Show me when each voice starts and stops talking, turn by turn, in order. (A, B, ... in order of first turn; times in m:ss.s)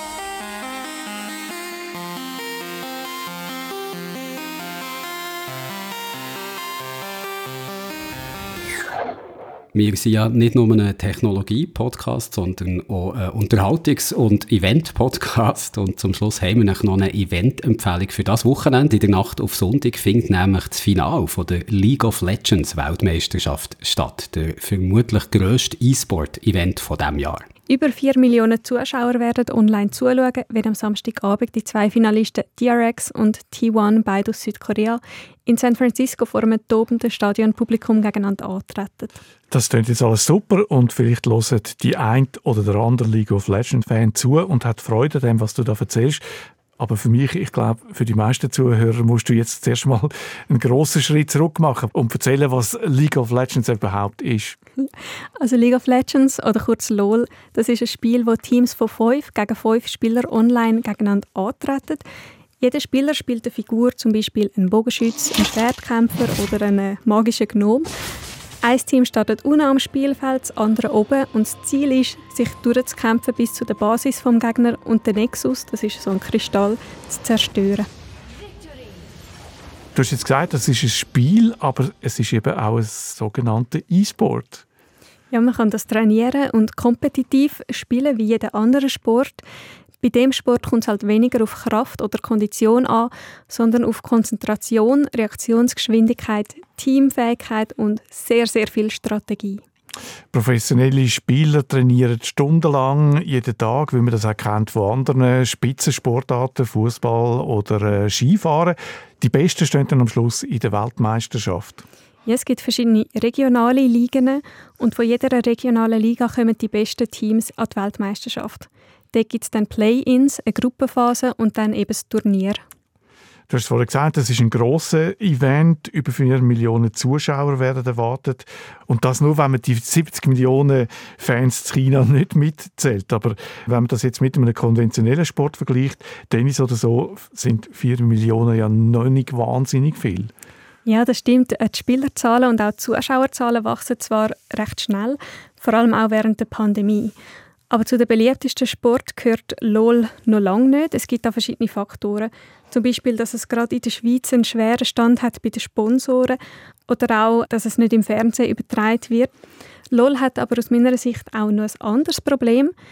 0:09.7-0:27.4 A
0:27.7-0:39.2 B
0:39.5-0:46.2 C
0:46.8-0:54.6 C
0:55.4-1:02.0 B
1:02.6-1:07.9 B
1:08.6-1:17.9 B
1:19.9-1:24.6 C
1:25.3-1:29.4 B
1:30.0-1:39.6 B
1:40.3-1:51.8 C
1:52.2-2:02.6 B
2:03.5-2:20.3 C
2:20.8-2:27.1 B
2:27.7-2:39.3 B
2:39.9-2:42.7 B